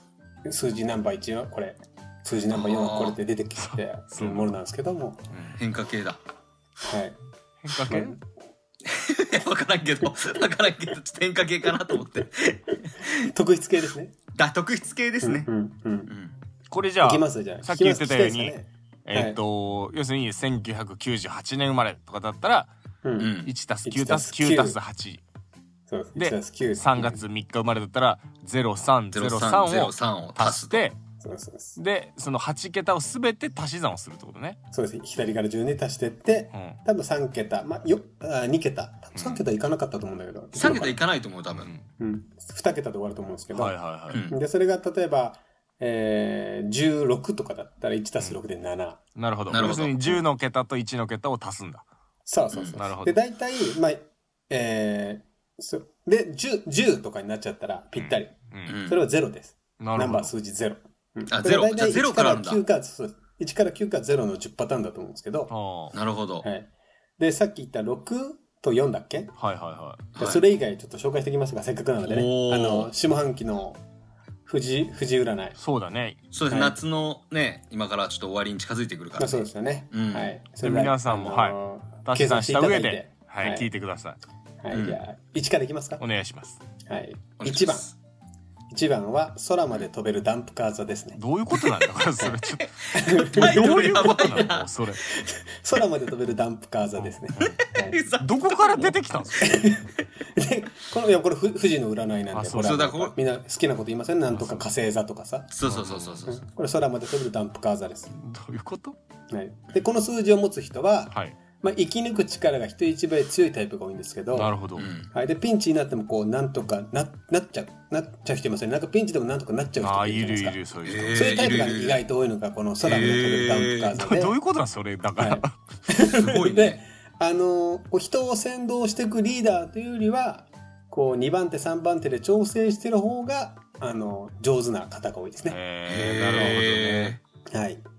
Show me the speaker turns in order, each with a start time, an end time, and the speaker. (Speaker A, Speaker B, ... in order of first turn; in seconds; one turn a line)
Speaker A: 0.5-5.2
Speaker B: 2.5-3.2
Speaker C: 3.6-4.5
Speaker C: 5.3-5.6
Speaker B: 5.6-6.2
Speaker A: 6.8-7.2
Speaker C: 7.6-8.2
Speaker A: 7.8-8.2
Speaker B: 8.9-13.3
Speaker A: 13.3-14.1
Speaker B: 14.3-15.5
Speaker A: 15.2-16.1
Speaker B: 16.1-16.4
Speaker C: 16.7-22.7
Speaker A: 17.0-19.4
Speaker A: 23.0-24.8
Speaker B: 23.2-23.5
Speaker C: 23.4-25.2
Speaker A: 25.9-27.2
Speaker C: 26.2-31.0
Speaker B: 29.1-30.8
Speaker A: 31.2-31.8
Speaker C: 31.8-34.6
Speaker A: 34.7-41.0
Speaker C: 39.1-39.4
Speaker B: 40.6-41.7
Speaker C: 41.5-41.9
Speaker A: 42.0-49.0
Speaker C: 43.5-44.2
Speaker B: 44.1-44.4
Speaker C: 49.2-51.9
Speaker B: 49.5-50.1
Speaker A: 52.2-65.5
Speaker C: 52.8-53.2
Speaker C: 58.0-58.8
Speaker B: 58.7-59.0
Speaker C: 59.8-60.3
Speaker B: 61.3-62.6
Speaker C: 65.5-66.0
Speaker B: 65.9-66.5
Speaker A: 66.4-69.3
Speaker C: 69.4-70.1
Speaker B: 70.2-70.4
Speaker A: 70.2-73.8
Speaker B: 72.0-72.9
Speaker A: 74.5-75.6
Speaker C: 75.6-76.2
Speaker B: 76.3-80.3
Speaker A: 76.5-76.8
Speaker A: 79.2-83.7
Speaker C: 80.6-84.2
Speaker A: 84.6-86.0
Speaker B: 84.7-85.0
Speaker C: 86.0-86.6
Speaker A: 86.9-87.9
Speaker B: 87.4-88.0
Speaker A: 88.7-91.2
Speaker C: 91.2-95.0
Speaker B: 92.6-94.7
Speaker A: 92.9-94.5
Speaker A: 95.1-98.0
Speaker C: 97.0-97.5
Speaker B: 97.4-99.0
Speaker C: 98.2-99.7
Speaker A: 99.4-105.5
Speaker C: 102.3-102.8
Speaker B: 102.6-103.2
Speaker C: 104.3-104.7
Speaker B: 105.5-106.4
Speaker C: 105.7-106.2
Speaker A: 106.3-108.1
Speaker C: 108.1-109.0
Speaker A: 109.3-114.5
Speaker C: 114.3-114.9
Speaker B: 114.8-115.1
Speaker A: 115.1-120.6
Speaker C: 119.8-121.4
Speaker B: 120.8-122.0
Speaker A: 121.2-124.4
Speaker B: 122.8-124.0
Speaker C: 123.9-125.6
Speaker A: 125.2-135.6
Speaker B: 126.0-126.8
Speaker C: 135.4-137.2
Speaker B: 135.9-137.2
Speaker A: 137.5-137.8